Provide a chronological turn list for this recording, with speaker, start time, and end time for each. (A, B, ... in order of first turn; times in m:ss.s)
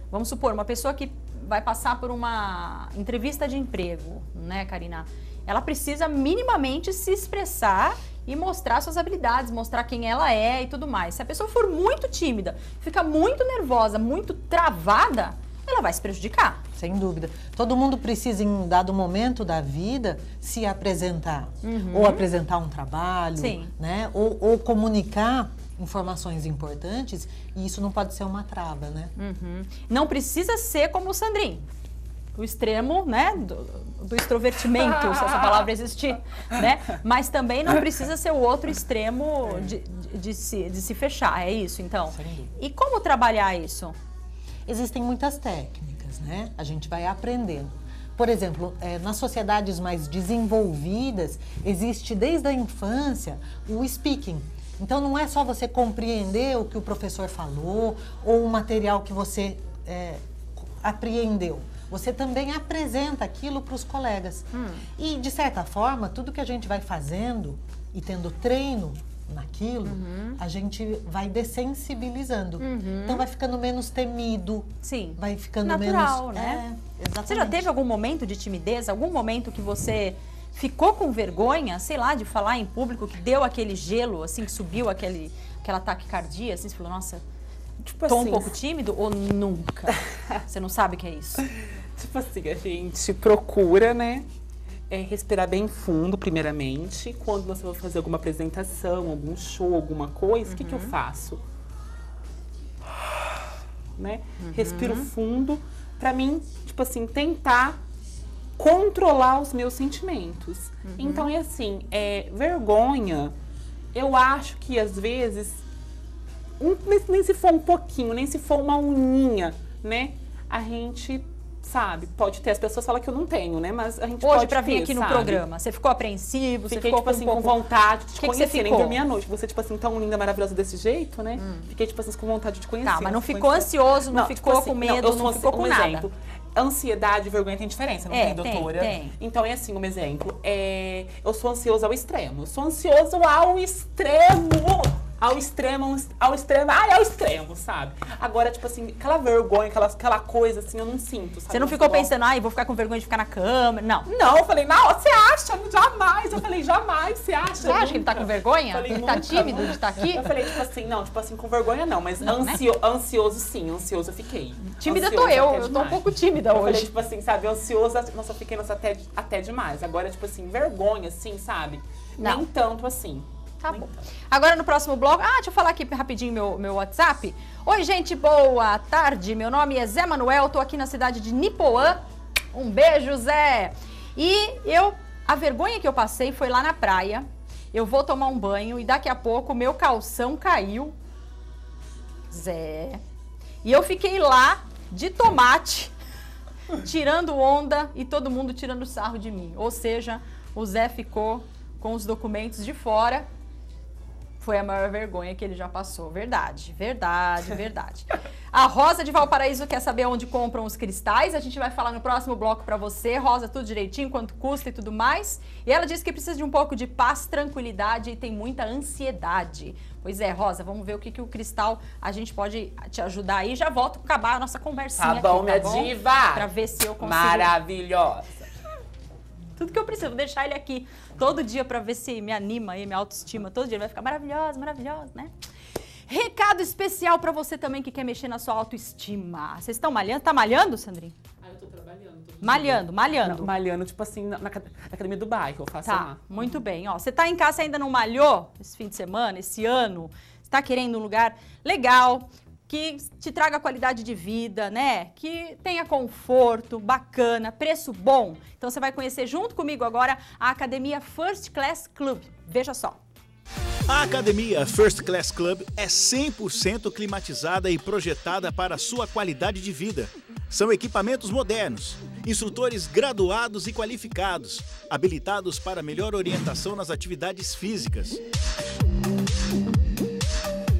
0:00.1-0:16.6 A
0:16.8-0:29.1 B
0:21.6-0:22.2 A
0:23.4-0:23.7 A
0:29.2-0:31.7 A
0:32.4-0:44.0 A
0:42.1-0:42.5 B
0:44.6-1:17.7 B
1:04.5-1:04.8 A
1:09.8-1:10.4 A
1:12.6-1:13.2 A
1:14.8-1:16.6 A
1:17.3-1:27.2 A
1:27.8-1:28.6 C
1:28.0-1:31.4 A
1:32.0-1:34.2 C
1:34.9-1:41.4 C
1:40.5-1:40.9 A
1:44.0-1:47.8 C
1:44.4-1:45.1 A
1:48.6-1:53.3 C
1:50.8-1:51.3 A
1:53.9-1:55.6 C
1:56.6-2:05.4 C
2:04.2-2:07.6 A
2:06.7-2:32.1 C
2:08.2-2:09.0 A
2:11.4-2:11.7 A
2:12.8-2:16.1 A
2:18.1-2:19.1 A
2:31.5-2:34.1 A
2:34.1-2:54.0 C
2:37.6-2:40.3 A
2:42.2-2:42.6 A
2:44.6-2:46.9 A
2:52.2-2:52.4 A
2:53.6-3:02.0 A
3:02.5-3:11.0 A
3:12.3-3:13.0 A
3:13.6-3:15.9 A
3:16.7-3:23.3 A
3:24.4-3:47.5 A
3:45.0-3:48.5 C
3:49.6-3:55.3 A
3:56.1-4:01.2 A
4:01.4-4:06.6 C
4:02.4-4:03.5 A
4:05.8-4:23.0 A
4:23.9-4:38.2 D